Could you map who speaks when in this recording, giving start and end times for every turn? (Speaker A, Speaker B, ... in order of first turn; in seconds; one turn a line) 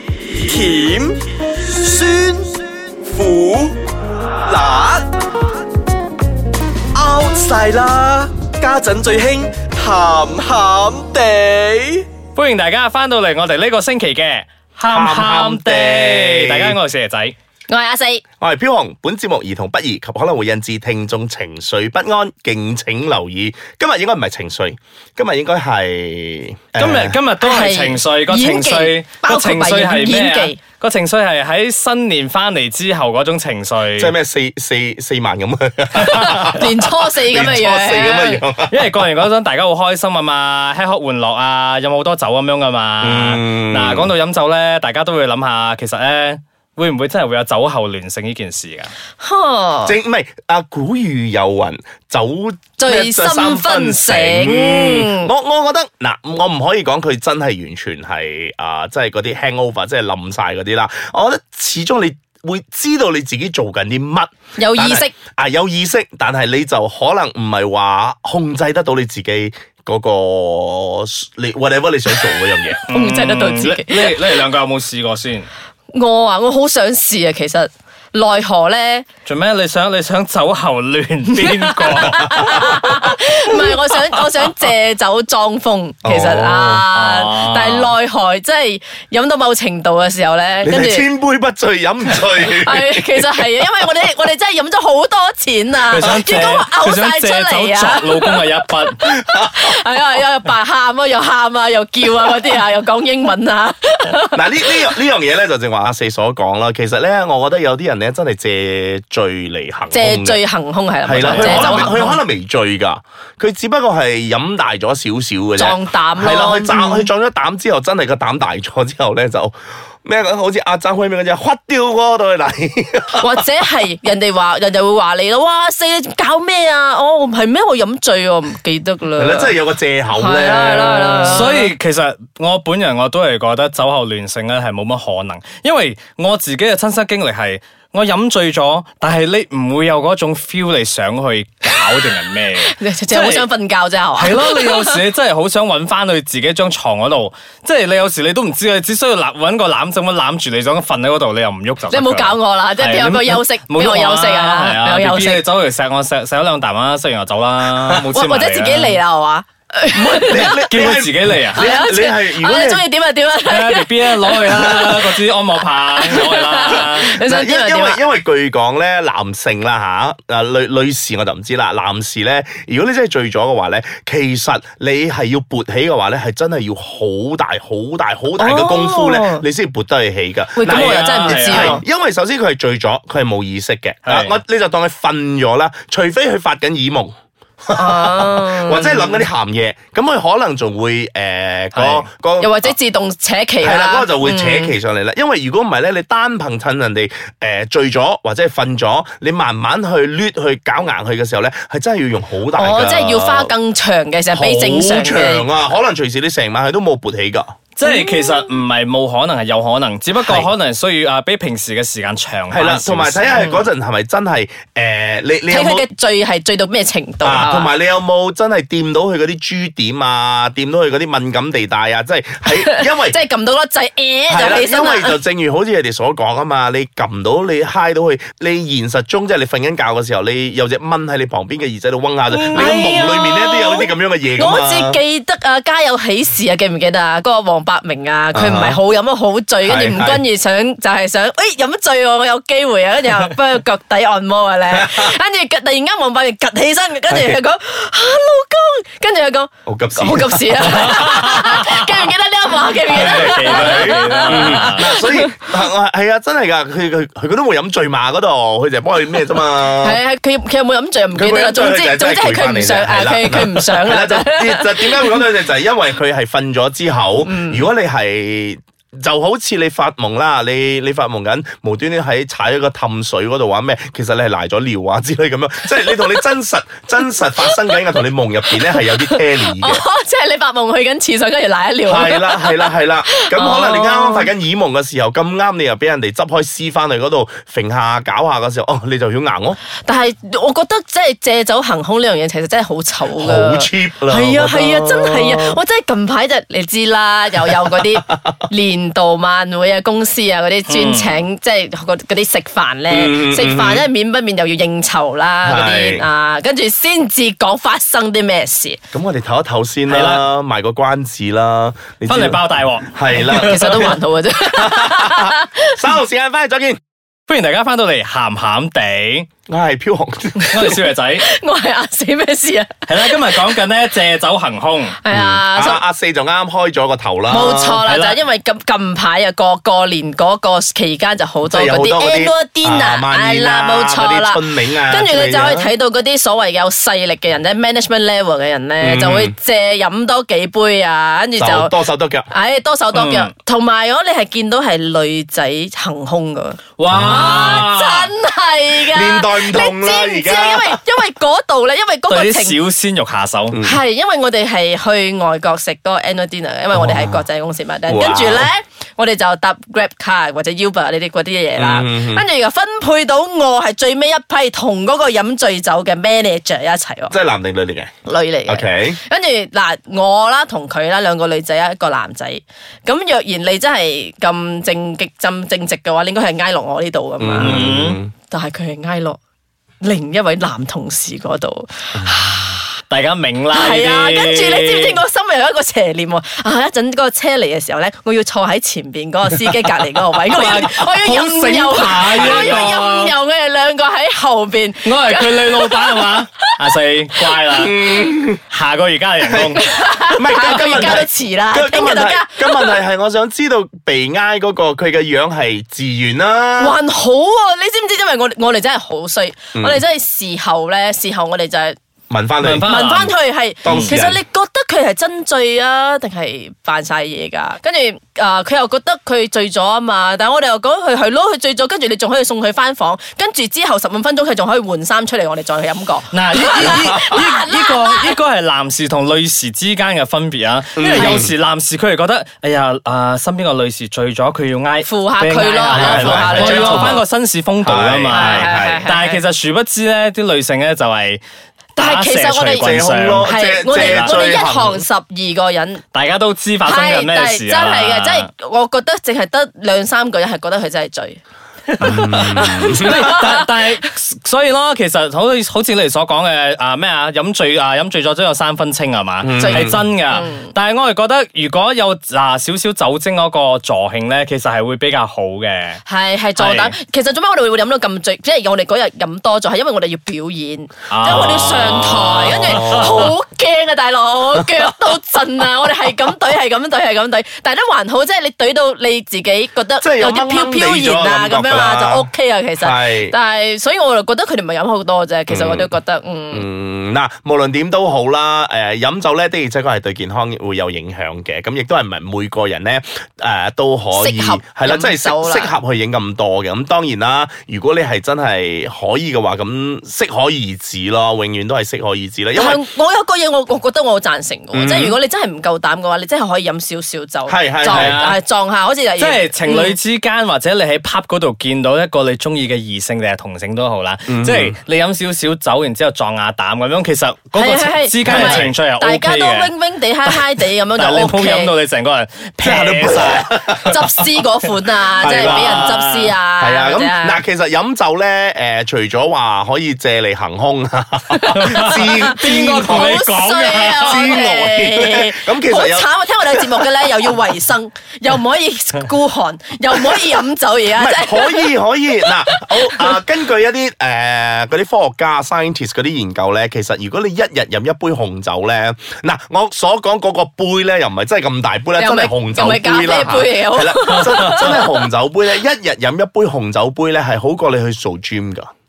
Speaker A: 0.3-1.2
Speaker A: 1.7-3.8
Speaker A: 4.4-5.1
Speaker A: 6.9-12.1
Speaker B: 12.4-17.4
Speaker C: 14.9-16.8
Speaker D: 17.7-18.2
Speaker C: 18.4-27.2
Speaker B: 26.8-34.1
Speaker D: 27.4-30.6
Speaker C: 34.0-38.8
Speaker D: 36.0-38.4
Speaker B: 38.7-48.9
Speaker C: 43.0-44.1
Speaker D: 49.2-50.0
Speaker C: 49.8-72.8
Speaker D: 52.8-55.3
Speaker D: 64.6-65.1
Speaker B: 72.9-75.5
Speaker D: 72.9-74.2
Speaker D: 75.9-79.0
Speaker B: 79.2-83.2
Speaker D: 81.7-91.1
Speaker C: 82.0-82.8
Speaker C: 86.0-86.9
Speaker B: 86.9-87.9
Speaker C: 90.6-93.5
Speaker D: 92.4-98.4
Speaker B: 95.9-99.0
Speaker C: 96.0-96.3
Speaker C: 99.0-99.6
Speaker D: 99.5-104.8
Speaker C: 104.3-110.4
Speaker D: 109.9-112.2
Speaker C: 111.0-123.4
Speaker B: 111.2-112.0
Speaker D: 115.6-117.1
Speaker D: 123.2-129.6
Speaker C: 129.2-131.4
Speaker D: 130.1-131.7
Speaker B: 131.2-143.5
Speaker D: 142.6-145.0
Speaker B: 144.2-159.0
Speaker D: 151.9-155.4
Speaker D: 158.1-160.7
Speaker C: 159.9-162.8
Speaker B: 160.6-161.7
Speaker D: 161.6-165.2
Speaker B: 163.5-167.2
Speaker D: 165.9-168.0
Speaker C: 167.0-192.8
Speaker D: 178.4-179.4
Speaker D: 180.6-181.8
Speaker B: 180.7-181.8
Speaker B: 184.1-184.4
Speaker D: 187.7-189.2
Speaker B: 191.7-192.1
Speaker D: 192.4-194.7
Speaker C: 193.6-203.5
Speaker D: 202.6-205.5
Speaker C: 204.3-207.5
Speaker B: 207.8-213.5
Speaker D: 207.8-208.5
Speaker C: 210.2-210.5
Speaker C: 212.5-215.9
Speaker D: 213.4-213.6
Speaker D: 215.5-217.7
Speaker C: 217.2-223.2
Speaker D: 222.5-225.2
Speaker C: 224.3-235.0
Speaker B: 232.3-233.0
Speaker D: 232.5-255.3
Speaker C: 238.3-238.8
Speaker C: 239.6-240.2
Speaker C: 244.7-245.1
Speaker C: 247.1-247.4
Speaker C: 249.7-251.1
Speaker B: 250.7-251.8
Speaker C: 252.9-260.0
Speaker B: 252.9-254.9
Speaker D: 259.6-265.2
Speaker C: 261.1-279.8
Speaker D: 267.2-267.7
Speaker D: 277.4-277.8
Speaker D: 278.5-284.3
Speaker C: 281.9-289.6
Speaker D: 289.8-308.8
Speaker C: 293.1-295.6
Speaker C: 297.8-298.1
Speaker B: 300.7-301.2
Speaker C: 302.9-303.9
Speaker C: 305.4-306.1
Speaker C: 308.9-316.8
Speaker B: 309.9-310.2
Speaker B: 312.1-313.9
Speaker D: 313.3-315.8
Speaker B: 317.3-319.3
Speaker C: 319.5-320.7
Speaker B: 320.5-321.2
Speaker D: 320.5-323.4
Speaker B: 322.9-325.0
Speaker D: 325.0-325.8
Speaker C: 325.1-327.8
Speaker D: 327.3-341.8
Speaker B: 327.8-328.2
Speaker C: 331.4-335.7
Speaker C: 338.8-339.3
Speaker C: 341.4-342.3
Speaker D: 342.3-352.6
Speaker B: 342.9-343.3
Speaker B: 346.8-348.1
Speaker C: 346.9-347.4
Speaker C: 348.7-350.8
Speaker B: 352.1-353.6
Speaker C: 353.5-353.8
Speaker D: 353.6-367.1
Speaker C: 356.7-357.2
Speaker C: 357.9-358.5
Speaker C: 361.6-362.2
Speaker C: 367.1-367.9
Speaker D: 368.1-377.7
Speaker C: 368.5-369.0
Speaker C: 377.2-378.1
Speaker B: 377.4-378.0
Speaker D: 378.3-379.2
Speaker D: 379.8-382.7
Speaker B: 382.9-385.0
Speaker D: 383.5-396.6
Speaker B: 390.3-393.1
Speaker C: 391.9-392.7
Speaker B: 394.8-399.6
Speaker C: 397.6-398.4
Speaker C: 399.3-406.8
Speaker D: 399.6-402.8
Speaker B: 400.6-401.0
Speaker D: 406.6-411.8
Speaker C: 409.5-409.8
Speaker C: 412.1-412.7
Speaker B: 412.4-413.1
Speaker D: 412.6-428.1
Speaker C: 413.6-414.2
Speaker B: 413.6-414.0
Speaker B: 426.1-441.2
Speaker C: 430.8-431.3
Speaker D: 434.8-437.0
Speaker C: 435.7-437.0
Speaker C: 437.6-438.9
Speaker D: 438.1-439.2
Speaker B: 441.8-444.1
Speaker D: 441.8-445.8
Speaker C: 442.6-444.8
Speaker B: 445.9-448.3
Speaker D: 446.6-451.2
Speaker B: 451.8-452.1
Speaker C: 451.8-453.1
Speaker D: 451.8-453.5
Speaker B: 452.8-465.8
Speaker C: 459.2-459.8
Speaker D: 459.4-460.5
Speaker D: 465.9-486.5
Speaker B: 466.4-466.7
Speaker B: 470.9-473.1
Speaker C: 471.1-471.4
Speaker C: 472.2-473.1
Speaker C: 479.8-483.1
Speaker C: 485.3-485.7
Speaker C: 486.3-502.6
Speaker D: 493.9-495.5
Speaker D: 502.3-509.8
Speaker C: 504.5-505.0
Speaker C: 507.3-508.0
Speaker B: 507.7-508.2
Speaker B: 509.0-519.5
Speaker C: 514.1-514.6
Speaker D: 517.3-521.5
Speaker C: 518.0-518.5
Speaker B: 520.8-526.1
Speaker C: 522.4-523.8
Speaker D: 523.6-527.2
Speaker C: 525.0-525.8
Speaker C: 526.4-533.0
Speaker D: 531.1-542.9
Speaker B: 531.3-534.1
Speaker C: 533.8-537.1
Speaker C: 539.8-540.0
Speaker C: 540.7-558.5
Speaker D: 551.8-554.8
Speaker B: 554.0-554.5